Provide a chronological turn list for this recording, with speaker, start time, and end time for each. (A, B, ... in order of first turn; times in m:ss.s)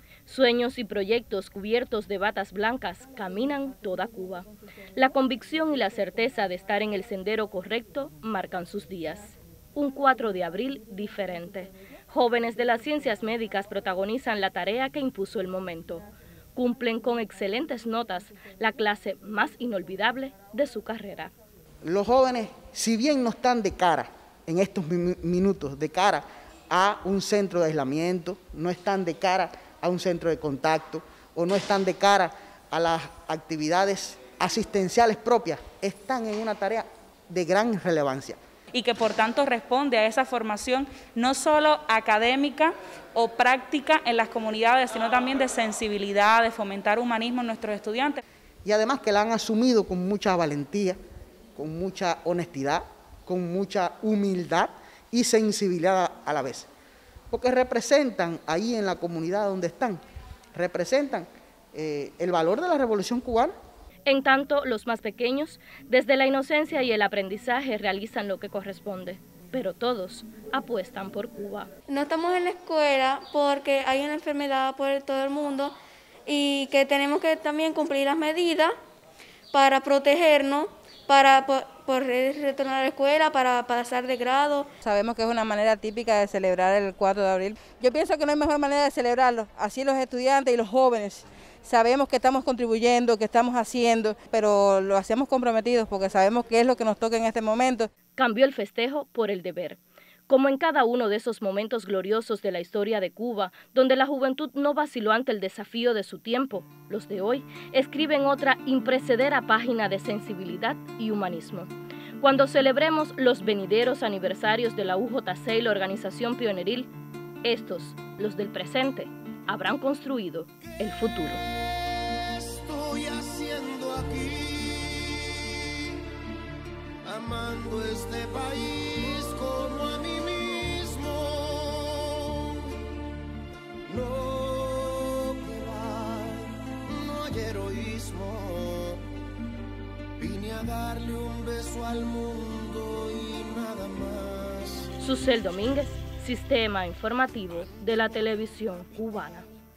0:00.3-0:21.3 A
0:21.8-0:38.4 B
0:38.7-0:48.2 C
0:48.6-0:51.0 B
0:51.6-0:56.7 B
0:57.3-1:00.0 B
1:00.5-1:03.5 B
1:04.1-1:11.7 A
1:11.9-1:15.7 D
1:16.3-1:18.7 D
1:19.5-1:24.7 D
1:24.8-1:37.9 E
1:38.2-1:56.9 A
1:57.4-2:01.4 A
2:01.6-2:06.0 F
2:07.0-2:12.8 F
2:13.9-2:19.0 F
2:20.2-2:24.9 F
2:25.0-2:29.5 A